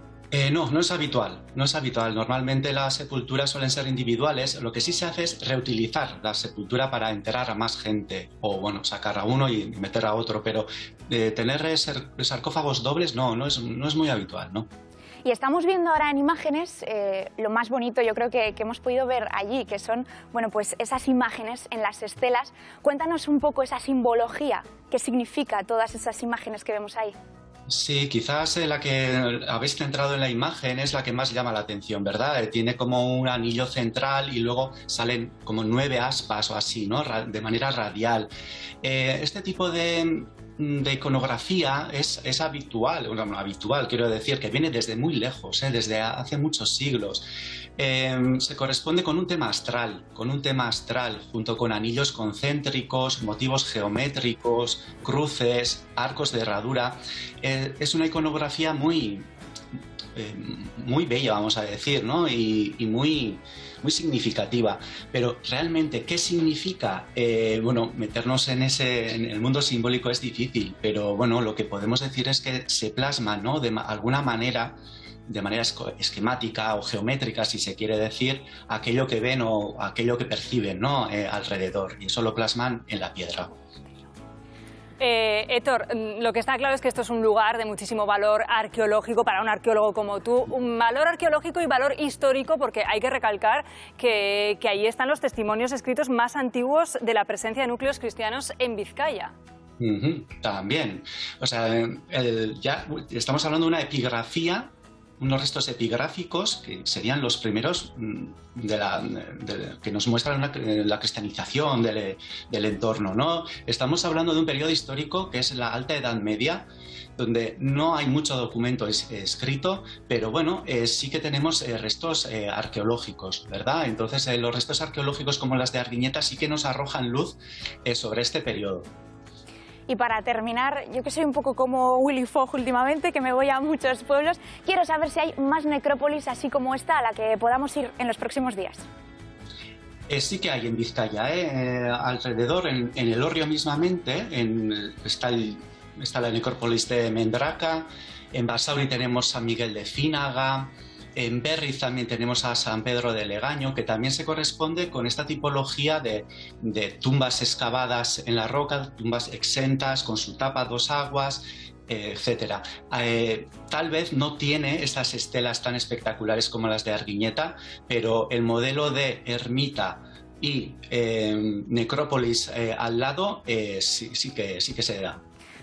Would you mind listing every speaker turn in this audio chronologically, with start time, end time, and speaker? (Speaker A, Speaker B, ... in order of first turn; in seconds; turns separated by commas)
Speaker A: 0.3-14.7, Speaker B: 15.2-27.1, Speaker A: 27.7-38.3, Speaker A: 38.8-59.3, Speaker A: 60.1-74.8, Speaker A: 75.3-83.5, Speaker C: 85.0-99.3, Speaker A: 99.8-116.7, Speaker A: 117.2-128.9, Speaker B: 129.9-138.8, Speaker A: 140.1-175.2